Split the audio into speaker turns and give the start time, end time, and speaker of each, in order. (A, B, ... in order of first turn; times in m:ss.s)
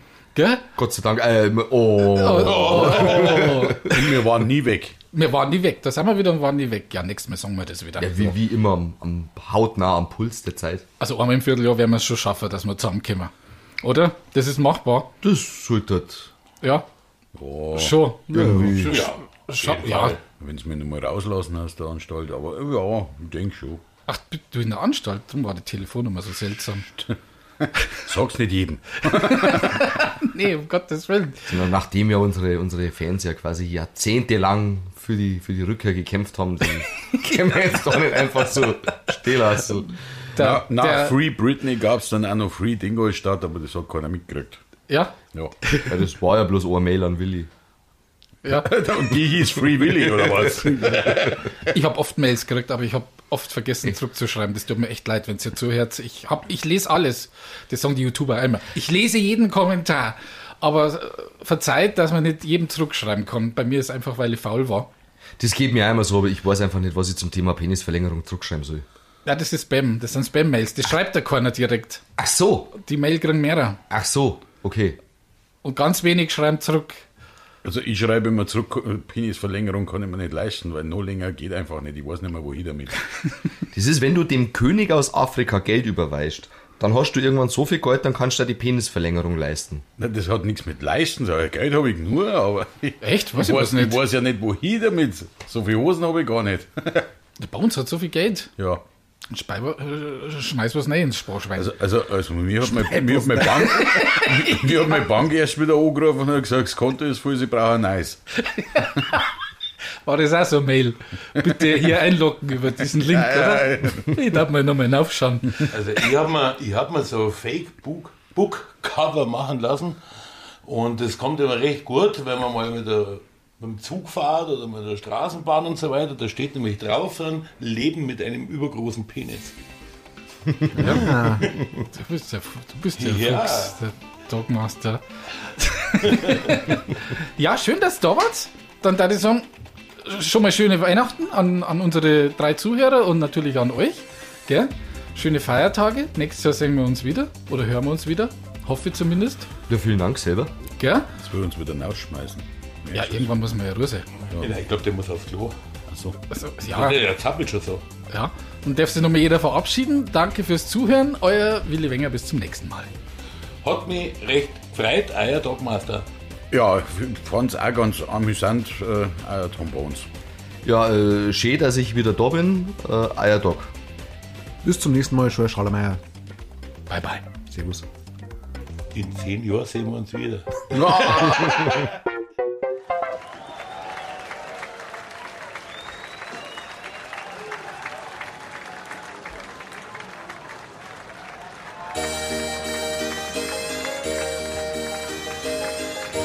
0:00.3-0:00.6 A
0:00.8-0:04.1 B
0:02.1-0:03.8 A
0:02.6-0:05.0 C
0:05.1-0:08.3 A
0:08.0-0:10.8 B
0:11.0-0:15.1 A
0:15.2-0:16.3 B
0:17.3-0:18.0 C
0:17.7-0:20.2 A
0:18.3-0:19.1 B
0:18.9-0:20.2 D
0:20.3-0:23.8 C
0:24.1-0:26.9 A
0:27.9-0:30.0 C
0:29.1-0:31.5 A
0:31.5-0:39.9 B
0:40.3-0:41.2 A
0:40.4-0:44.6 C
0:44.9-0:45.1 A
0:45.9-0:47.5 B
0:48.4-0:48.7 A
0:48.6-0:51.4 C
0:50.9-0:51.2 B
0:51.7-1:04.9 A
1:05.4-1:08.8 B
1:09.2-1:12.0 A
1:12.2-1:12.7 B
1:12.8-1:13.8 A
1:13.9-1:15.0 B
1:15.6-1:17.0 A
1:17.6-1:23.0 C
1:23.7-1:29.8 B
1:30.0-1:37.1 C
1:33.0-1:34.0 A
1:37.4-1:38.5 A
1:38.6-1:38.8 C
1:39.3-1:41.7 A
1:41.6-1:48.2 C
1:42.6-1:44.7 A
1:48.5-1:49.2 A
1:50.0-1:55.7 A
1:53.1-1:54.1 C
1:55.7-2:00.0 D
2:00.6-2:09.5 D
2:10.8-2:11.4 E
2:11.9-2:15.0 A
2:13.0-2:13.7 D
2:15.6-2:19.5 A
2:20.0-2:29.5 A
2:29.7-2:30.5 B
2:30.8-2:31.1 A
2:31.2-2:33.3 C
2:32.9-2:34.0 A
2:34.4-2:35.5 D
2:35.9-2:36.2 C
2:36.3-2:37.0 A
2:36.7-2:37.8 D
2:38.1-2:42.9 A
2:43.6-2:46.0 D
2:46.5-2:50.1 C
2:50.6-2:53.7 B
2:54.6-2:56.0 E
2:56.9-2:57.2 A
2:57.5-2:57.8 E
2:58.9-3:00.6 D
3:00.7-3:01.8 C